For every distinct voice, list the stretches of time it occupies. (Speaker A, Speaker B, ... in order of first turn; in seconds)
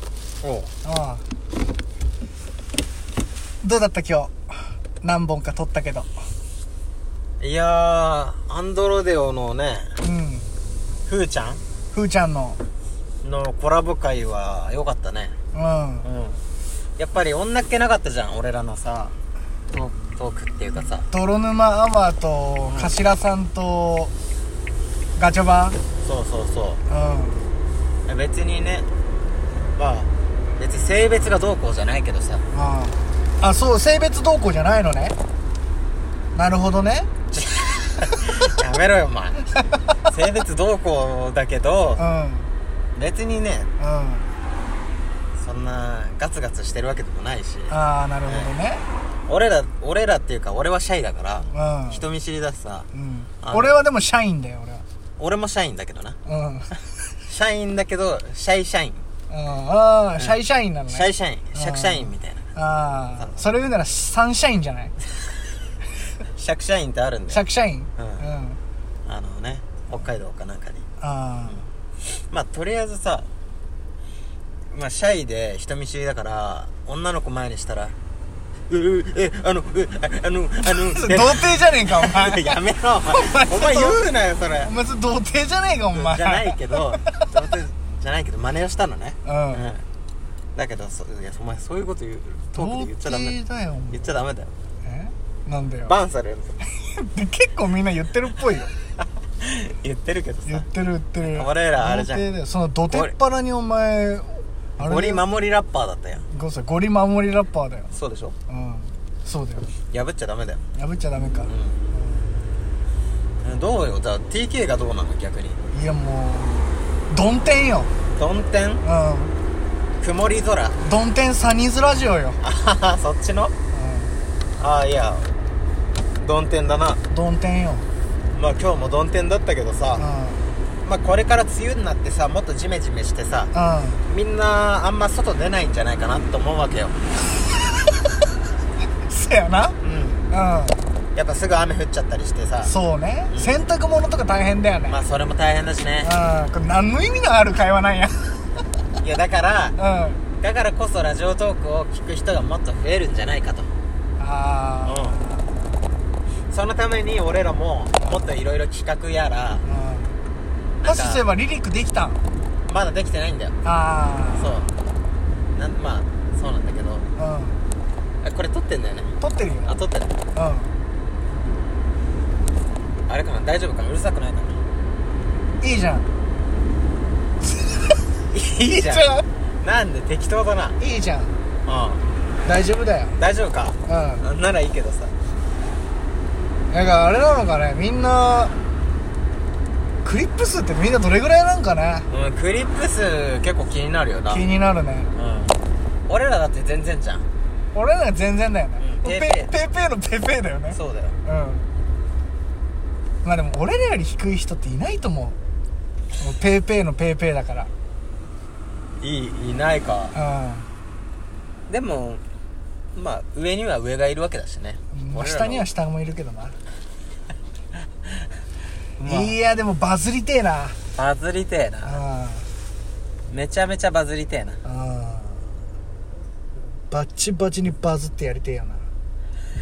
Speaker A: 0.4-0.7, 7.4-10.0, 11.1-11.6, 13.2-15.3, 16.0-16.4, 17.0-19.1, 19.7-21.1, 22.7-23.0, 26.0-26.8, 28.1-28.9, 29.8-32.4, 37.3-39.4, 40.1-42.0, 43.0-43.7, 45.4-47.8, 48.3-48.5, 49.3-52.9, 53.4-53.8, 55.2-56.2, 57.3-59.0, 60.9-62.5, 66.3-67.4, 68.0-68.3, 69.0-70.8, 72.1-73.3, 74.7-78.0, 78.7-84.7, 85.9-89.8, 90.5-93.4, 93.9-94.5, 95.8-96.6, 99.4-100.7, 101.3-102.3, 102.8-103.1, 104.8-106.3, 107.9-108.3, 109.9-110.7, 111.5-111.8, 113.4-115.6, 118.2-118.8, 120.0-120.8, 122.4-123.5, 124.6-125.4, 126.2-127.0, 128.3-130.0, 130.8-133.5, 134.1-137.0, 139.8-140.3, 141.2-142.7, 144.9-146.1, 149.0-149.8, 150.4-153.7, 154.8-155.2, 156.5-159.6, 160.8-161.2, 162.7-163.6, 164.3-164.7, 165.5-167.1, 168.2-169.1, 169.7-170.2, 173.1-174.6, 178.3-180.8, 181.7-182.0, 183.2-185.2, 192.1-194.4, 195.1-197.3, 198.8-199.5, 200.7-201.2, 209.0-210.2, 211.7-212.2, 212.9-215.7, 219.0-219.4, 220.9-222.0, 223.3-224.6
Speaker B: 0.8-1.2, 3.6-6.1, 10.0-10.5, 11.9-12.6, 15.5-16.1, 21.1-24.1, 25.2-25.8, 26.9-27.4, 32.5-35.1, 36.4-37.1, 42.0-42.5, 43.8-44.3, 47.7-48.8, 51.5-52.0, 52.9-54.8, 56.3-56.8, 59.3-64.9, 67.3-68.6, 71.0-71.7, 80.7-84.1, 84.6-87.3, 89.2-89.7, 92.5-94.0, 94.8-95.9, 96.6-98.7, 100.5-105.2, 106.3-107.9, 108.5-109.7, 110.8-112.4, 115.7-117.9, 118.8-119.3, 120.8-122.4, 123.7-124.2, 127.1-127.9, 130.0-130.5, 133.5-134.0, 139.0-139.8, 140.3-140.8, 142.6-145.0, 146.0-148.5, 149.8-150.2, 154.2-155.6, 158.0-158.3, 159.6-160.2, 160.8-162.2, 163.6-164.5, 167.2-167.6, 169.2-169.8, 170.3-170.8, 175.6-176.1, 178.7-179.2, 180.8-181.4, 182.4-183.2, 183.9-184.2, 186.7-188.5, 190.0-192.1, 194.3-195.1, 197.7-201.7, 203.2-205.4, 206.2-207.7, 210.1-210.7, 214.9-216.6, 219.0-220.8, 221.8-222.5, 224.7-225.4, 226.9-228.9